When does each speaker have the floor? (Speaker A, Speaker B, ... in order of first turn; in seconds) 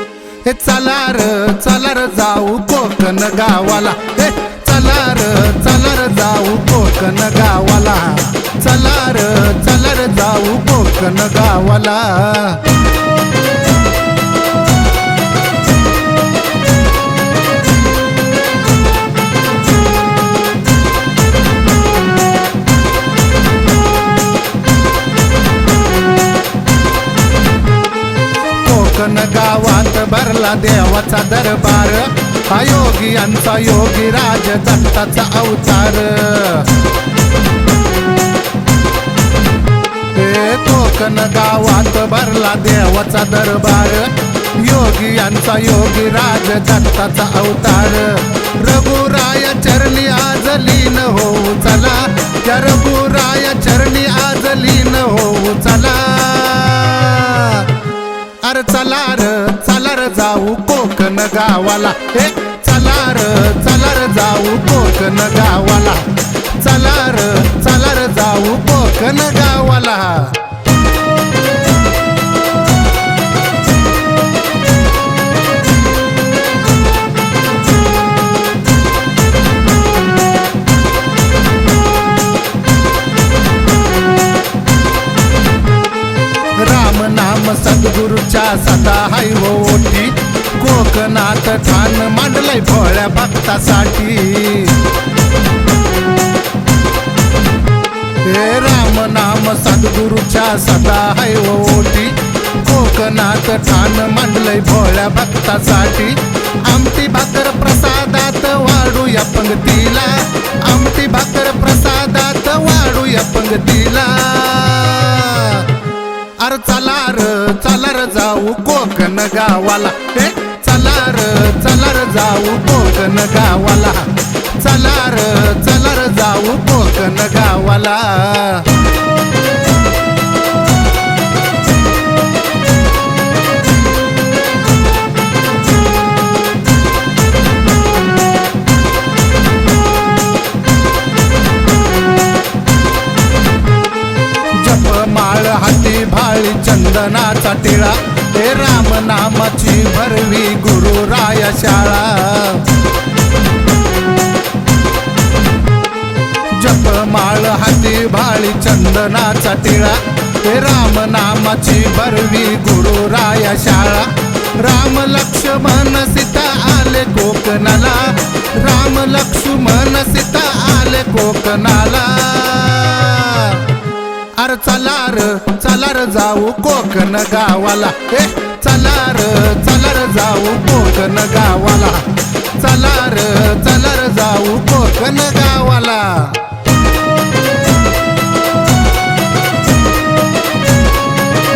Speaker A: 0.4-12.7, 28.6-36.8, 40.1-57.8, 58.4-70.5, 86.6-94.9, 98.2-115.8, 116.4-128.8, 144.5-152.8, 156.5-173.8, 174.4-186.5